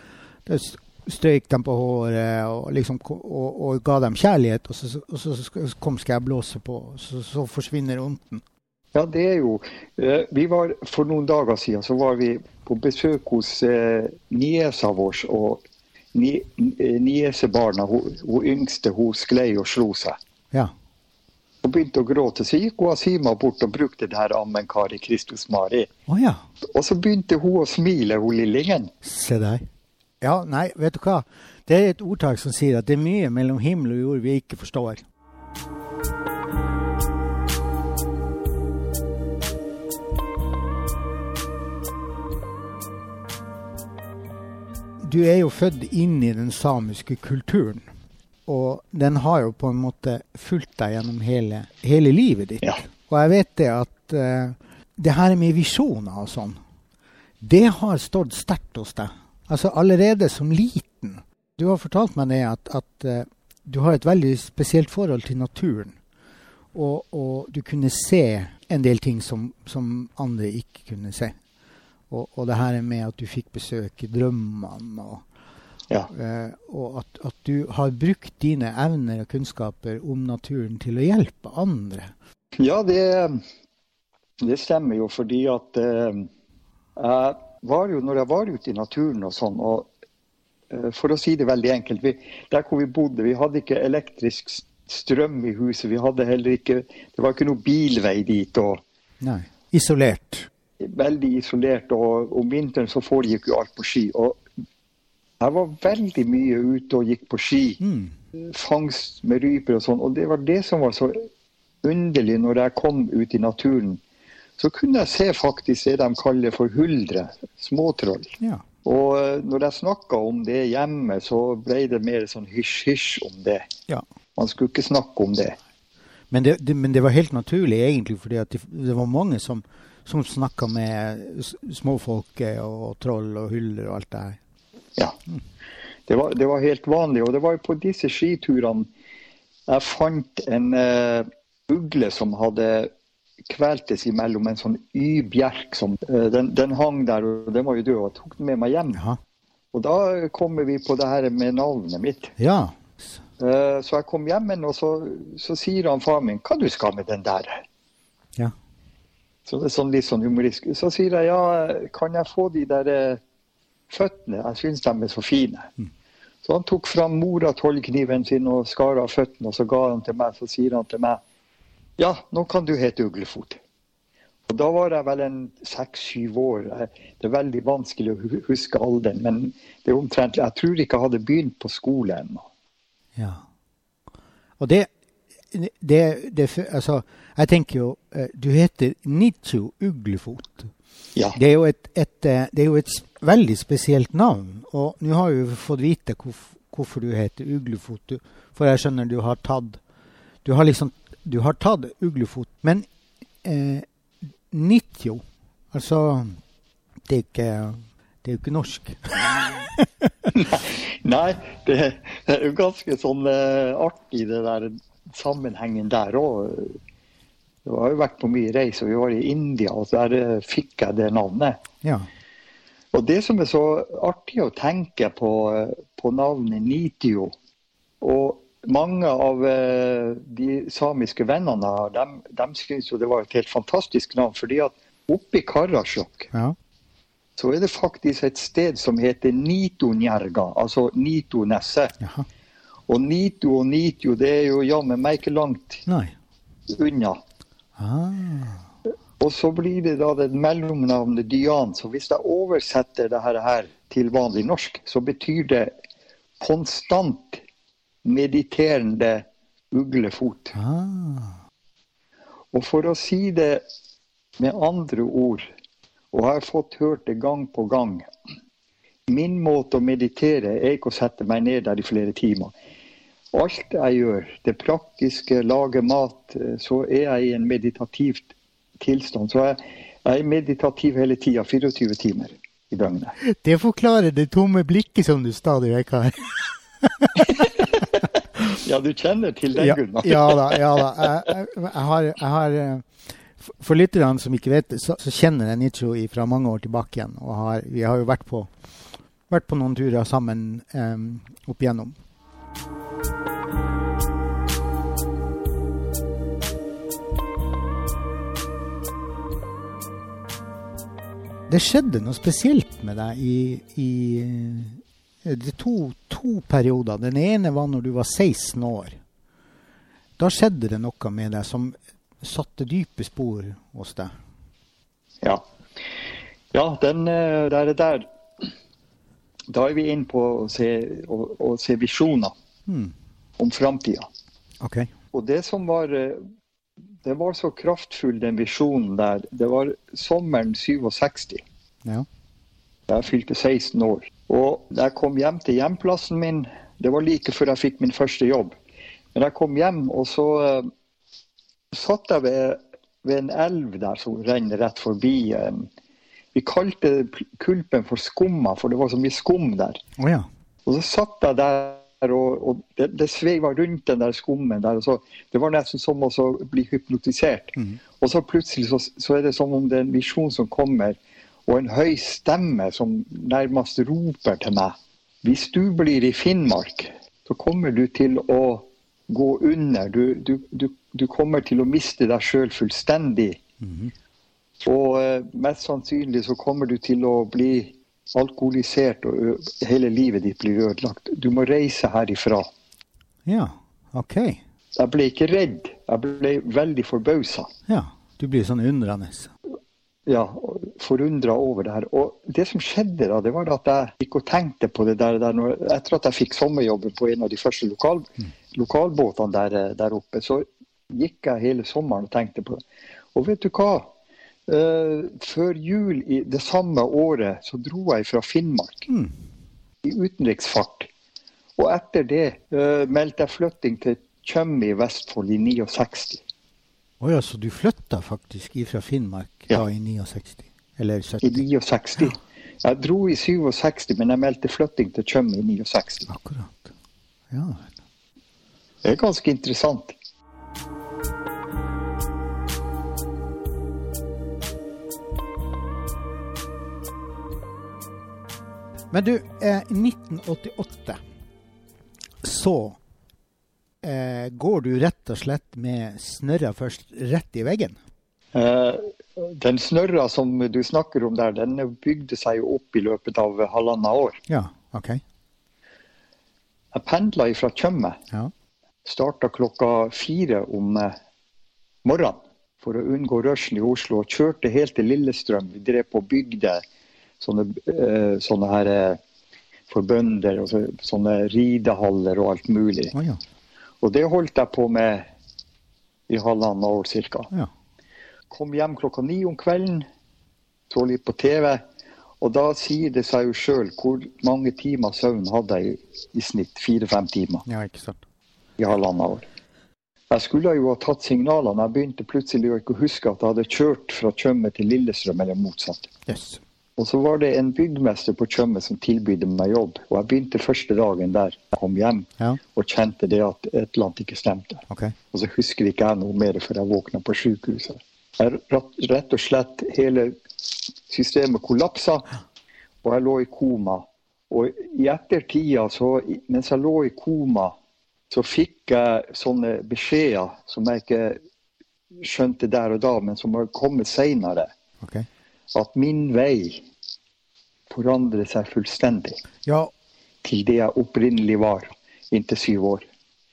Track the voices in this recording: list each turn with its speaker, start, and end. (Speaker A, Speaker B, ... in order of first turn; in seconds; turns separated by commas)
Speaker A: 0.5-8.4, Speaker B: 8.9-15.6, Speaker B: 16.1-20.2, Speaker B: 21.6-25.9, Speaker A: 26.1-26.4, Speaker B: 26.7-28.9, Speaker A: 29.0-29.6, Speaker A: 30.2-35.0, Speaker A: 45.0-47.9, Speaker A: 48.5-56.6, Speaker A: 57.4-66.0, Speaker A: 66.7-71.3, Speaker A: 72.1-75.2, Speaker A: 76.1-82.1, Speaker B: 82.6-83.4, Speaker B: 84.4-86.3, Speaker B: 87.0-89.9, Speaker B: 90.7-98.8, Speaker A: 99.2-100.5, Speaker B: 100.8-104.4, Speaker B: 105.4-107.8, Speaker A: 107.8-108.1, Speaker B: 108.3-111.3, Speaker B: 111.8-114.0, Speaker B: 114.6-123.7, Speaker B: 124.3-125.6, Speaker A: 126.3-134.4, Speaker B: 136.1-138.9, Speaker B: 139.7-142.9, Speaker B: 143.5-149.0, Speaker A: 148.9-149.2, Speaker B: 149.7-152.3, Speaker A: 152.4-153.2, Speaker B: 153.4-157.6, Speaker B: 159.4-163.2, Speaker B: 163.9-165.7, Speaker B: 166.4-171.2, Speaker B: 172.0-173.6, Speaker B: 174.5-182.4, Speaker A: 183.2-183.4, Speaker A: 184.6-184.9, Speaker A: 185.5-190.7, Speaker A: 191.3-199.8, Speaker A: 200.4-202.9, Speaker A: 203.4-203.8, Speaker A: 204.5-206.4, Speaker A: 207.1-210.3, Speaker B: 210.3-216.8, Speaker B: 217.6-221.6, Speaker A: 221.8-222.1, Speaker B: 222.9-227.3, Speaker B: 228.0-236.3, Speaker A: 236.3-236.6, Speaker B: 237.4-242.0, Speaker A: 242.0-242.2, Speaker B: 242.9-245.8, Speaker A: 245.9-246.1, Speaker B: 246.7-247.2, Speaker A: 247.8-248.6, Speaker B: 249.2-255.7, Speaker B: 256.4-257.4, Speaker B: 258.0-260.6, Speaker A: 260.6-261.4, Speaker B: 262.5-263.6, Speaker B: 264.4-265.4, Speaker B: 266.1-268.1, Speaker B: 269.1-272.5, Speaker B: 273.3-278.3, Speaker B: 278.8-283.1, Speaker A: 283.2-287.6, Speaker B: 287.3-291.3, Speaker A: 289.6-298.5, Speaker A: 299.3-302.0, Speaker A: 311.5-319.0, Speaker A: 320.2-324.1, Speaker B: 326.5-328.0, Speaker B: 329.5-332.3, Speaker A: 332.7-332.9, Speaker B: 333.4-334.1, Speaker A: 334.6-334.9, Speaker B: 335.1-336.2, Speaker B: 337.0-341.4, Speaker B: 342.9-348.6, Speaker B: 349.1-350.7, Speaker B: 351.7-355.7, Speaker B: 356.3-359.8, Speaker A: 360.0-360.3, Speaker B: 360.6-383.4, Speaker A: 383.6-383.9, Speaker B: 384.6-392.5, Speaker A: 393.2-394.4, Speaker B: 394.8-397.5, Speaker A: 397.7-399.3, Speaker B: 400.1-412.6, Speaker B: 413.1-413.9, Speaker B: 414.5-418.9, Speaker A: 418.9-419.1, Speaker B: 419.8-420.9, Speaker B: 421.6-426.2, Speaker A: 427.0-431.4, Speaker B: 431.2-436.1, Speaker A: 436.1-436.7, Speaker A: 437.3-437.7, Speaker B: 438.8-439.9, Speaker A: 448.9-451.0, Speaker A: 452.2-452.8, Speaker A: 453.8-457.8, Speaker B: 458.3-464.2, Speaker A: 464.3-465.0, Speaker B: 466.7-468.0, Speaker B: 468.8-470.9, Speaker B: 471.8-476.6, Speaker B: 477.2-479.0, Speaker B: 479.7-482.9, Speaker A: 482.9-483.2, Speaker B: 483.8-485.1, Speaker B: 486.1-487.3, Speaker B: 488.3-489.9, Speaker B: 490.7-491.6, Speaker B: 492.2-497.4, Speaker A: 497.4-498.0, Speaker B: 498.6-499.3, Speaker B: 500.1-505.9, Speaker A: 506.1-506.4, Speaker B: 506.8-520.1, Speaker B: 520.9-522.1, Speaker B: 522.8-527.5, Speaker B: 528.1-531.2, Speaker B: 532.0-534.5, Speaker A: 534.8-535.1, Speaker B: 535.5-536.6, Speaker B: 537.7-539.2, Speaker A: 539.5-539.7, Speaker B: 540.2-542.9